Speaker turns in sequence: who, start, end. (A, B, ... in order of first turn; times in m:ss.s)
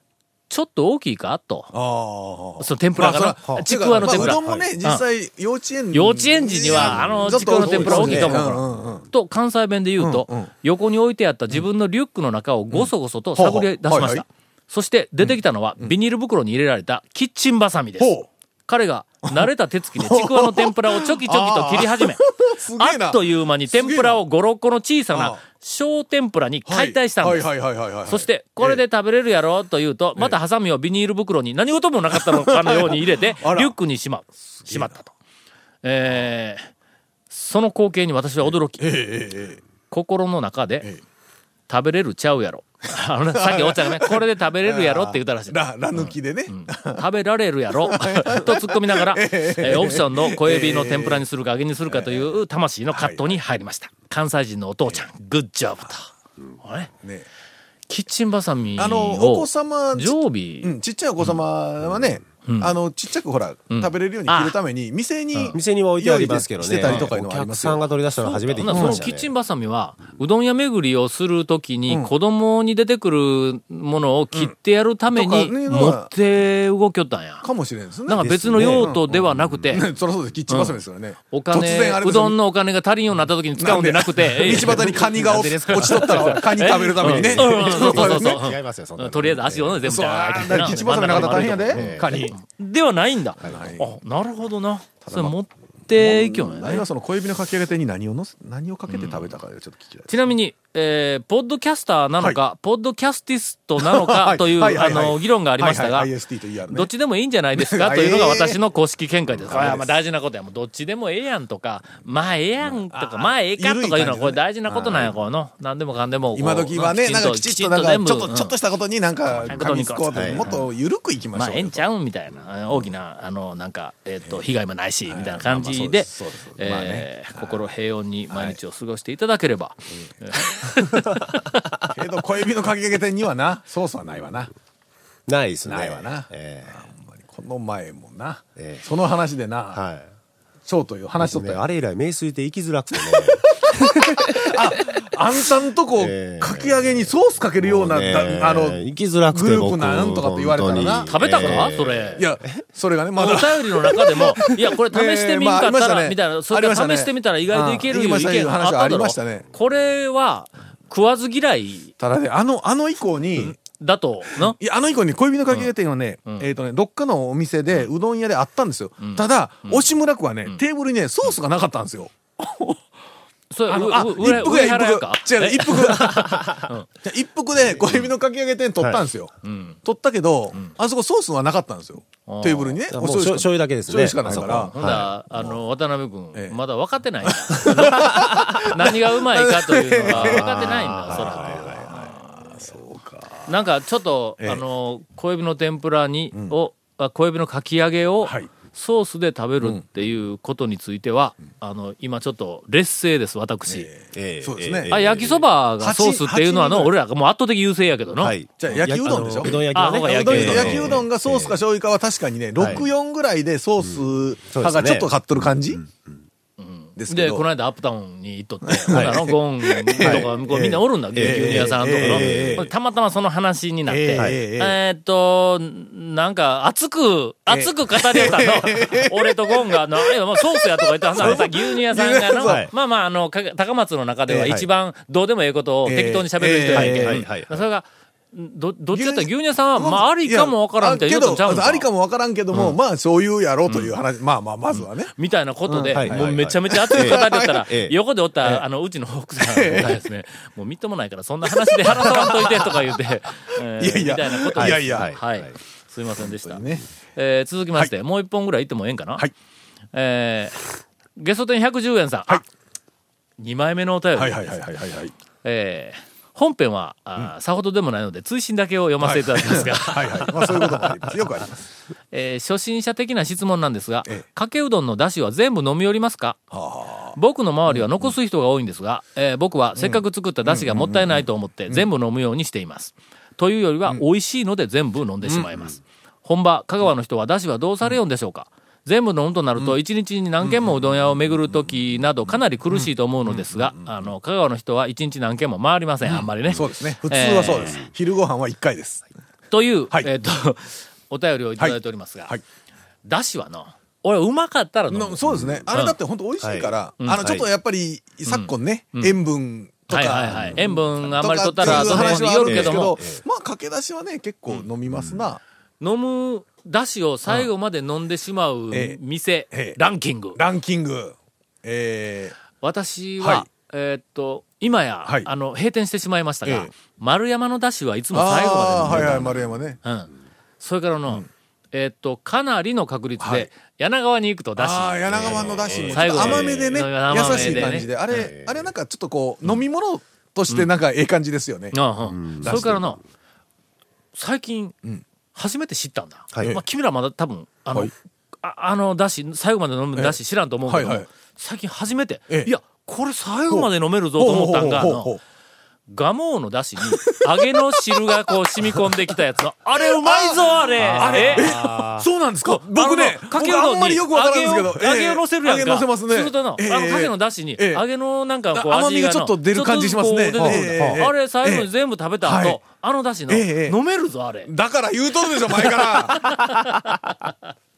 0:00.5-0:01.7 A
0:01.7-0:09.1 B
0:02.6-0:05.0 A
0:03.5-0:04.7 C
0:05.9-0:18.1 A
0:07.0-0:08.6 C
0:10.0-0:10.5 B
0:12.7-0:14.2 B
0:15.2-0:16.0 B
0:18.0-0:18.3 B
0:18.7-0:22.2 A
0:19.3-0:24.2 B
0:22.8-0:27.5 A
0:25.1-0:25.4 B
0:26.7-0:28.8 B
0:28.1-0:35.1 A
0:32.1-0:33.7 B
0:34.6-0:35.0 B
0:35.8-0:36.7 A
0:37.3-0:38.9 A
0:38.8-0:39.6 B
0:39.9-0:40.9 A
0:41.7-0:56.1 A
0:43.3-0:47.0 B
0:47.8-0:51.2 B
0:51.9-0:52.4 B
0:52.9-0:53.4 B
0:56.6-0:56.9 A
0:57.9-1:01.4 A
0:58.8-1:07.9 B
1:02.4-1:02.7 A
1:03.7-1:04.6 A
1:05.5-1:09.3 C
1:08.2-1:17.5 A
1:08.6-1:09.0 B
1:15.1-1:16.1 B
1:17.4-1:19.0 B
1:18.1-1:19.9 A
1:18.1-1:19.7 C
1:19.7-1:22.4 B
1:20.5-1:20.8 A
1:21.3-1:25.0 A
1:23.6-1:28.5 B
1:24.7-1:26.5 C
1:25.7-1:36.8 A
1:27.0-1:29.8 C
1:29.8-1:32.4 B
1:31.0-1:32.2 C
1:33.4-1:34.0 B
1:35.0-1:35.4 B
1:35.9-1:40.2 B
1:38.9-1:39.3 A
1:40.1-1:46.1 A
1:43.8-1:46.9 B
1:46.7-1:58.5 A
1:47.6-1:48.6 B
1:49.4-1:49.9 B
1:52.9-1:55.2 B
1:56.4-2:01.8 B
1:59.4-2:00.7 A
2:00.1-2:00.5 C
2:01.4-2:11.6 A
2:05.1-2:07.6 B
2:08.3-2:08.6 B
2:11.9-2:14.5 B
2:15.3-2:16.8 C
2:15.7-2:19.8 B
2:18.6-2:18.8 C
2:19.7-2:20.1 C
2:20.7-2:21.6 B
2:21.2-2:24.5 C
2:23.0-2:39.5 B
2:26.0-2:32.3 C
2:31.1-2:32.3 A
2:33.2-2:41.9 A
2:42.0-2:43.6 B
2:43.4-2:44.6 A
2:44.3-2:52.8 B
2:49.0-2:49.8 A
2:53.5-2:56.9 A
2:53.7-2:56.5 B
2:57.0-2:59.3 B
2:59.4-2:59.8 A
2:59.8-3:04.7 B
3:02.3-3:02.8 A
3:02.9-3:05.1 C
3:04.3-3:12.2 A
3:07.2-3:13.5 B
3:08.1-3:08.4 C
3:10.1-3:12.1 C
3:13.5-3:23.9 A
3:18.2-3:18.5 B
3:23.7-3:25.0 B
3:24.1-3:25.4 C
3:24.9-3:28.4 A
3:25.8-3:26.9 B
3:28.2-3:31.6 C
3:28.6-3:35.8 B
3:29.7-3:31.0 A
3:32.6-3:32.9 C
3:33.8-3:35.1 C
3:35.8-3:36.1 C
3:36.6-4:01.9 A
3:37.0-3:37.4 B
3:38.6-3:42.7 B
3:40.0-3:40.3 C
3:41.2-3:42.7 C
3:43.9-3:44.8 B
3:47.5-3:52.6 B
3:51.2-3:51.4 C
3:52.4-3:52.7 C
3:54.3-3:54.6 B
3:55.9-3:57.2 B
3:56.7-3:57.6 C
3:58.9-4:05.2 B
4:03.7-4:04.0 A
4:04.7-4:16.6 A
4:05.7-4:07.6 B
4:06.0-4:08.0 C
4:09.4-4:10.0 B
4:11.5-4:13.0 B
4:13.8-4:15.1 B
4:14.6-4:15.5 C
4:16.2-4:16.8 B
4:17.2-4:19.3 A
4:19.9-4:22.4 A
4:23.4-4:24.6 A
4:24.2-4:25.1 B
4:25.4-4:30.8 A
4:29.0-4:31.6 B
4:32.1-4:36.4 A
4:36.5-4:37.2 B
4:37.2-4:57.8 A
4:37.7-4:38.1 B
4:39.8-4:41.9 B
4:45.2-4:45.7 B
4:50.4-4:50.9 B
4:52.7-4:54.1 B
4:56.0-4:59.0 B
4:59.5-5:02.3 A
5:03.0-5:05.2 A
5:04.9-5:15.4 B
5:05.7-5:06.0 A
5:06.4-5:07.5 C
5:08.3-5:09.2 A
5:09.9-5:13.0 A
5:11.6-5:13.2 C
5:15.8-5:20.4 A
5:18.7-5:19.0 B
5:19.5-5:19.8 B
5:20.4-5:22.4 B
5:22.6-5:37.9 A
5:23.2-5:23.5 B
5:28.1-5:29.8 B
5:33.2-5:33.5 B
5:34.6-5:41.8 B
5:35.1-5:38.7 C
5:41.7-5:43.0 A
5:42.1-5:43.0 C
5:42.4-5:42.8 B
5:44.2-5:44.8 A
5:45.3-5:55.1 A
5:46.3-5:46.6 C
5:50.7-5:51.1 B
5:53.5-5:55.2 B
5:55.9-6:01.6 A
5:56.8-5:58.2 B
5:59.8-6:07.8 B
6:00.8-6:02.1 C
6:02.5-6:14.5 A
6:08.5-6:11.7 B
6:10.4-6:11.1 C
6:12.2-6:12.6 B
6:13.3-6:13.8 B
6:14.5-6:16.5 B
6:15.6-6:17.3 A